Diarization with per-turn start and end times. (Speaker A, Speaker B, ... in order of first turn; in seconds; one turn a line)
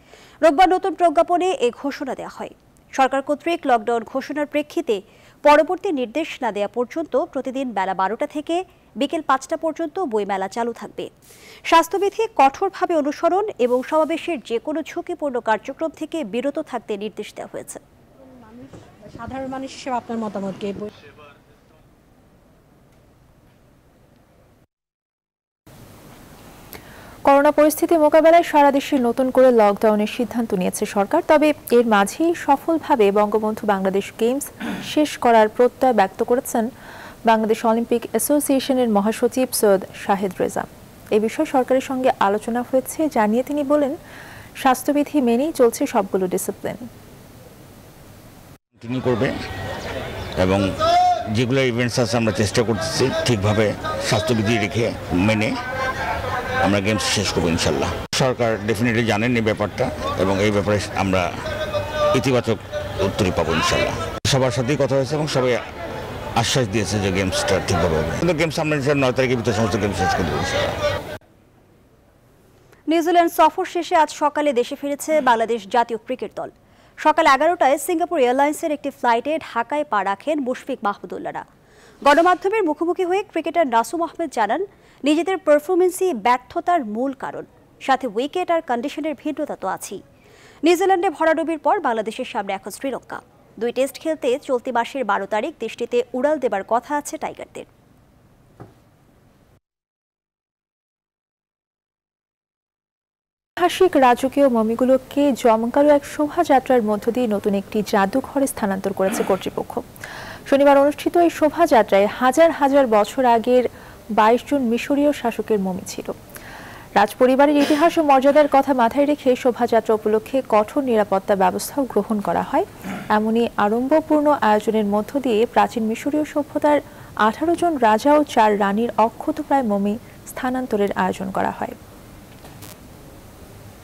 Speaker A: 0.5-11.1
Speaker A: 11.7-17.8
Speaker B: 18.5-20.9
Speaker C: 27.3-36.7
Speaker C: 37.3-44.0
Speaker C: 44.6-46.9
Speaker D: 48.8-49.3
Speaker D: 51.4-55.5
Speaker D: 56.6-61.2
Speaker D: 62.1-65.6
Speaker D: 66.4-70.7
Speaker A: 72.9-76.5
Speaker A: 77.0-81.4
Speaker A: 82.0-90.0
Speaker A: 90.7-97.7
Speaker C: 103.6-109.8
Speaker C: 110.5-113.7
Speaker C: 114.2-116.2
Speaker C: 117.0-131.8